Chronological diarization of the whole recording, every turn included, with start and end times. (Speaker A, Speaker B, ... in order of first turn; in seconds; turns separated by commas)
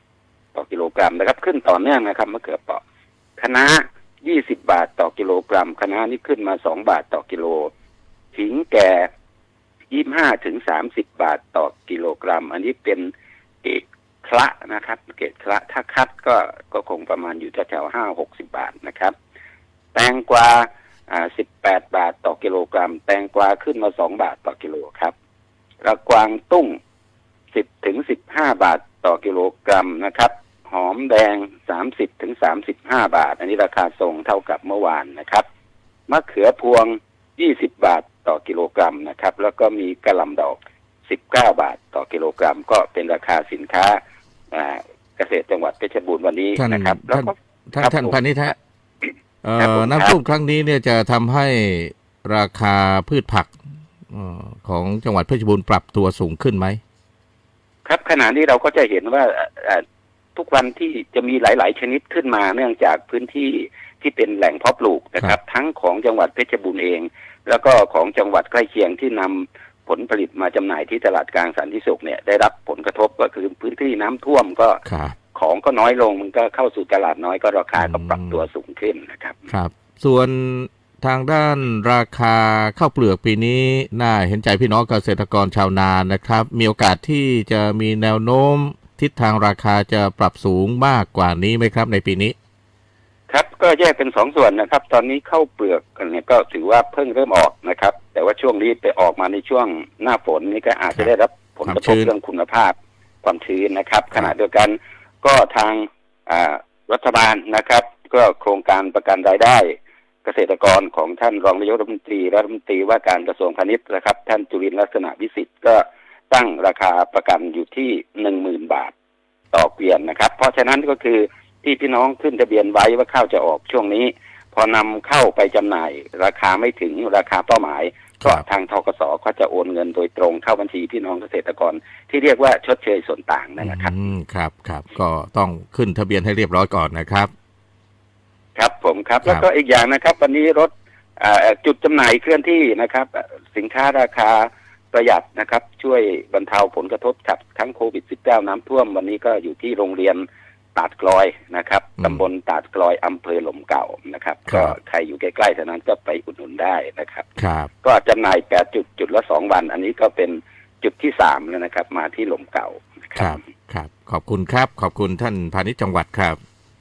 Speaker A: 0.5-2.8, Speaker A: 3.4-7.7, Speaker A: 8.3-9.1, Speaker A: 9.9-13.1, Speaker A: 13.6-19.1, Speaker A: 19.9-25.1, Speaker A: 25.8-26.8, Speaker A: 27.5-35.4, Speaker A: 36.1-44.0, Speaker A: 44.5-48.2, Speaker B: 46.6-48.5, Speaker B: 49.4-53.5, Speaker A: 49.6-50.1, Speaker B: 54.1-56.8, Speaker A: 57.9-59.8, Speaker A: 60.4-74.8, Speaker B: 74.8-75.2, Speaker A: 75.3-79.5, Speaker B: 77.8-78.4, Speaker B: 79.5-92.3, Speaker A: 93.3-118.9, Speaker B: 101.7-102.1, Speaker A: 119.5-133.9, Speaker B: 133.6-137.3, Speaker A: 138.6-157.3, Speaker B: 154.5-154.7, Speaker B: 157.4-157.7, Speaker A: 157.8-163.4, Speaker B: 163.2-166.4